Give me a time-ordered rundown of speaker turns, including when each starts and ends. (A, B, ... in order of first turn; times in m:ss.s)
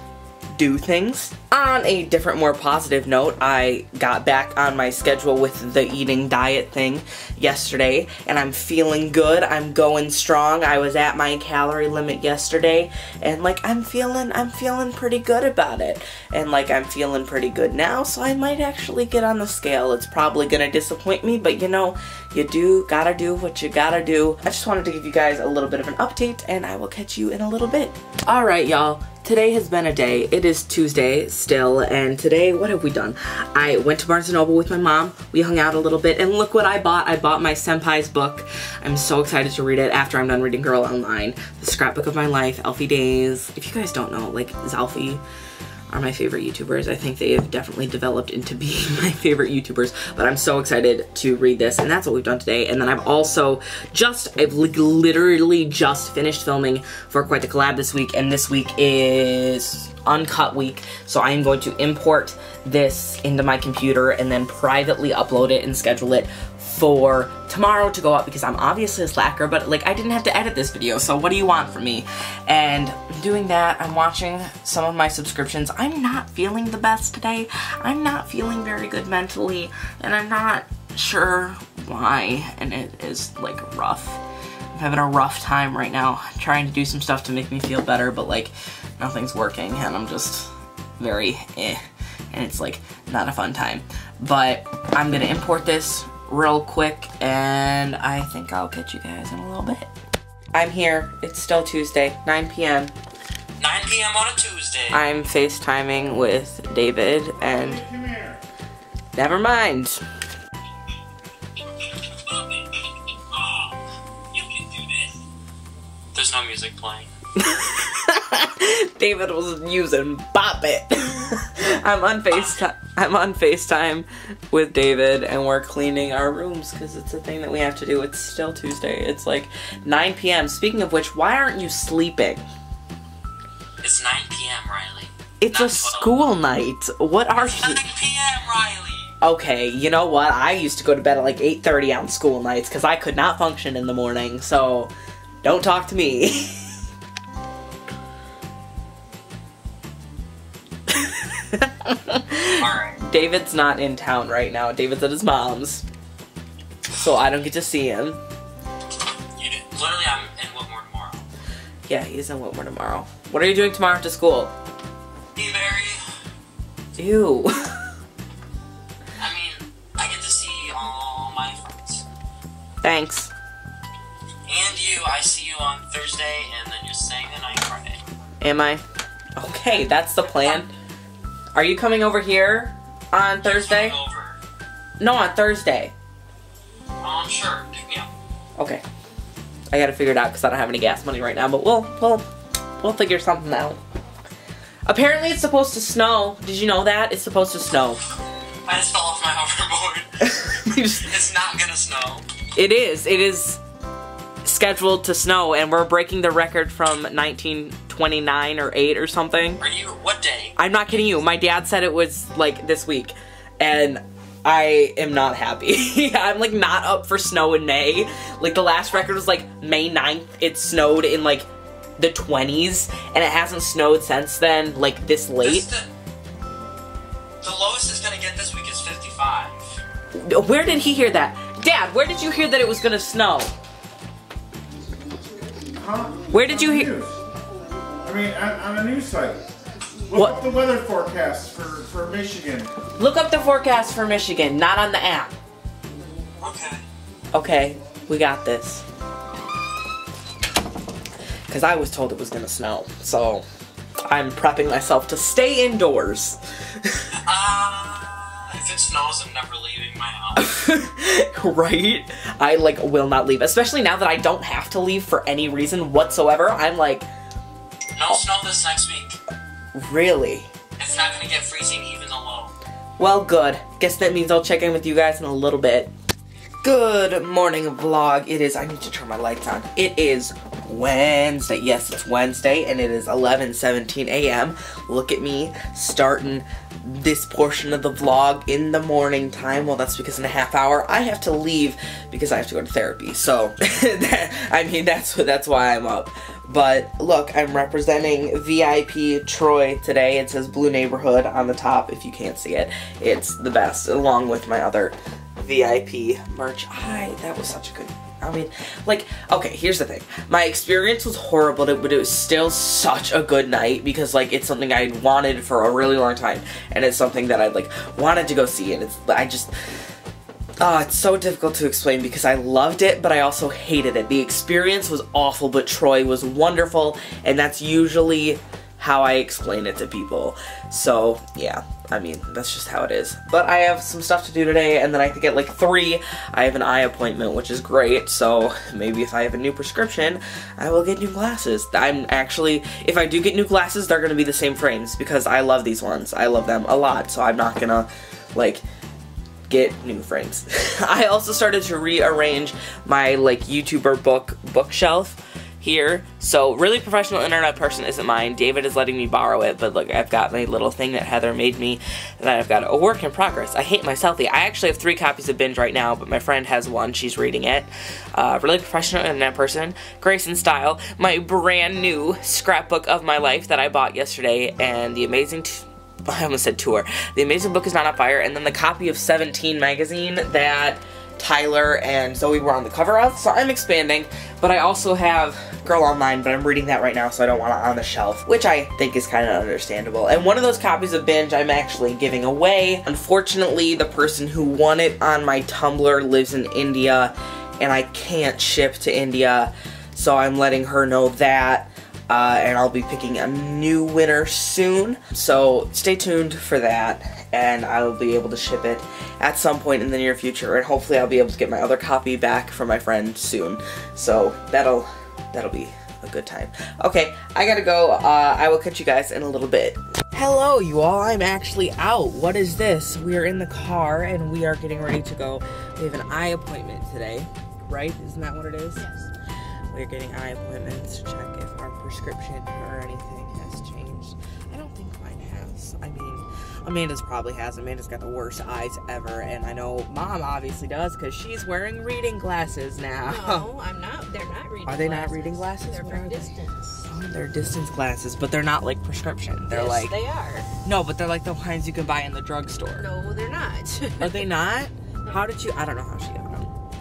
0:00.6-0:45.2 A
0:45.9-1:24.2 A
1:24.7-1:39.9 A
1:40.5-1:42.9 A
1:43.6-1:45.0 B
1:44.9-1:47.8 A
1:47.4-1:48.4 C
1:49.2-1:50.0 A
1:52.1-1:52.7 B
1:53.3-1:53.8 B
1:54.3-1:55.1 B
1:56.1-1:57.1 B
1:57.4-2:12.4 A
2:02.3-2:02.6 B
2:13.8-2:16.1 B
2:15.4-2:17.8 A
2:17.5-2:19.1 B
2:19.2-2:24.9 A
2:25.4-2:26.8 A
2:30.9-2:35.8 A
2:32.6-2:33.0 B
2:36.9-2:38.2 A
2:39.4-2:41.2 B
2:41.9-2:44.5 A
2:45.4-2:46.0 B
2:47.0-2:47.9 A
2:49.2-2:52.0 B
2:52.8-2:53.3 A
2:54.5-2:58.0 B
2:58.4-2:58.8 A
2:59.4-3:00.7 A
3:01.5-3:04.0 A
3:03.4-3:04.4 B
3:05.0-3:05.9 A
3:07.0-3:08.1 B
3:08.6-3:08.8 A
3:09.7-3:12.3 A
3:12.8-3:13.8 A
3:14.9-3:18.0 A
3:18.7-3:22.3 B
3:20.5-3:21.2 A
3:22.6-3:23.6 A
3:24.4-3:29.6 A
3:29.6-3:30.6 B
3:30.6-3:45.7 A
3:45.4-3:45.9 B
3:47.4-3:49.8 B
3:50.1-3:53.5 A
3:55.8-3:57.2 C
3:56.3-3:56.9 A
3:58.0-3:59.5 C
4:00.1-4:02.7 C
4:03.0-4:05.3 A
4:06.4-4:06.8 B
4:07.3-4:08.8 A
4:11.5-4:13.5 A
4:14.0-4:17.1 A
4:17.1-4:20.4 B
4:20.4-4:27.1 A
4:28.0-4:29.2 B
4:29.7-4:30.5 A
4:30.8-4:32.5 B
4:33.0-4:35.9 A
4:36.6-5:19.5 A
5:20.6-5:48.6 A
5:49.5-7:08.9 A
7:09.7-7:23.5 A
7:23.0-7:26.9 D
7:24.6-7:30.0 A
7:29.5-7:30.5 D
7:30.6-7:32.9 A
7:32.8-7:34.3 D
7:34.0-7:36.5 A